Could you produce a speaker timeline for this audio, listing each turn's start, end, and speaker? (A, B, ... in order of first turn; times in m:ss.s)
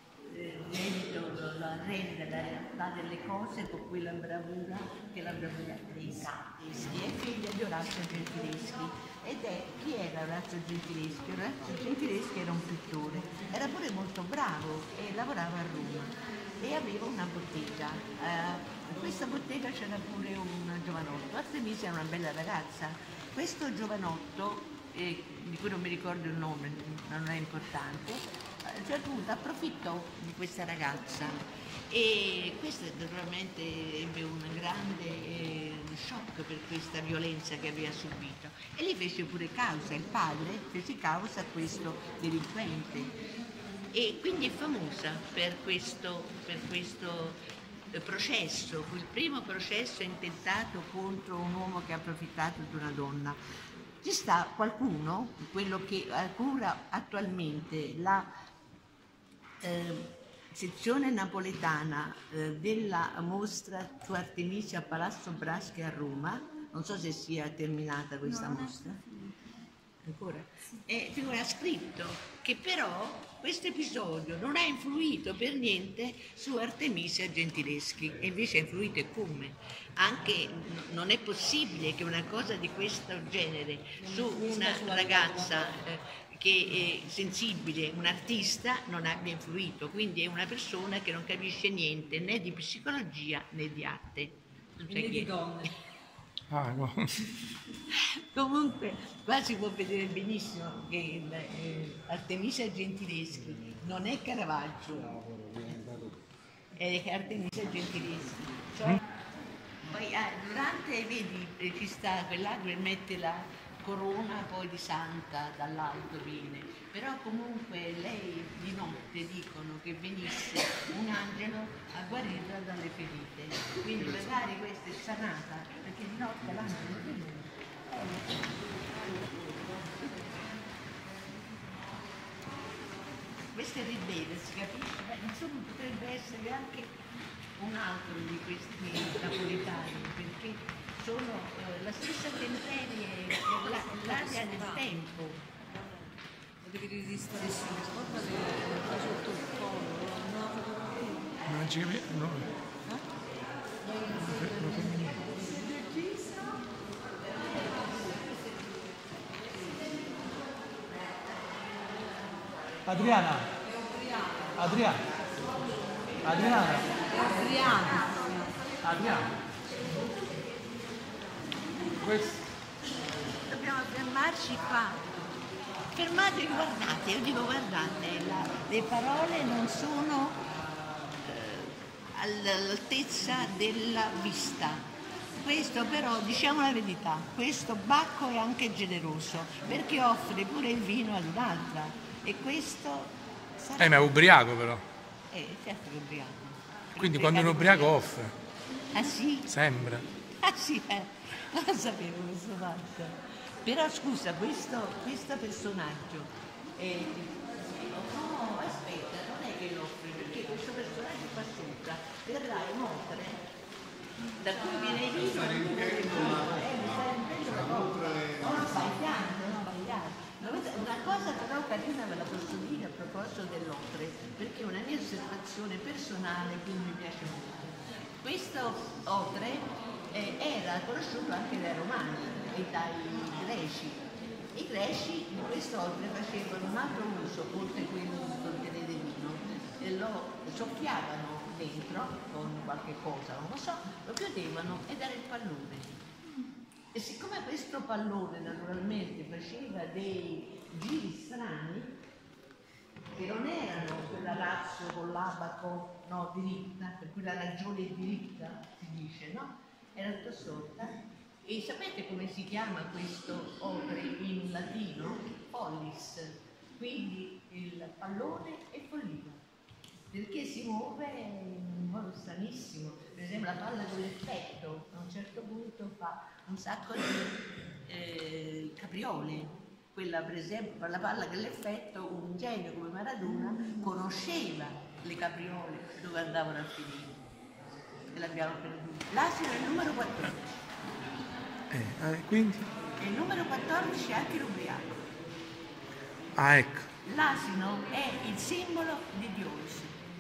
0:00.2-0:43.1 A
0:43.9-0:47.4 A
0:47.9-0:53.4 A
0:54.0-0:58.3 A
0:59.6-1:09.0 A
1:10.0-1:35.4 A
1:24.0-1:25.6 B
1:34.8-1:35.7 B
1:36.5-1:37.2 C
1:37.9-1:45.2 A
1:46.8-1:49.0 A
1:49.8-2:08.3 A
2:09.0-2:10.4 A
2:13.5-2:16.9 A
2:17.6-2:25.4 A
2:23.6-2:24.8 B
2:26.6-2:31.3 B
2:31.5-2:32.5 C
2:34.0-2:36.0 A
2:34.2-2:35.2 C
2:34.6-2:35.9 B
2:37.2-2:40.2 A
2:40.9-2:41.7 A
2:42.6-2:43.0 A
2:42.9-2:43.5 C
2:44.6-2:45.0 C
2:46.1-2:48.0 A
2:46.2-2:46.9 C
2:46.9-2:48.6 B
2:48.8-2:49.3 C
2:52.0-2:52.4 C
2:53.5-2:55.1 A
2:55.9-3:00.4 A
3:01.2-3:14.3 A
3:13.8-3:14.8 C
3:15.3-3:18.1 A
3:17.0-3:18.3 C
3:18.9-3:19.6 A
3:19.5-3:20.0 C
3:20.3-3:33.4 A
3:34.4-4:06.0 A
4:06.9-4:12.0 A
4:13.1-4:29.4 A
4:30.1-4:47.2 A
4:48.1-4:50.4 A
4:51.7-4:52.7 C
4:53.0-4:55.0 A
4:56.4-4:56.9 C
4:57.0-5:00.0 A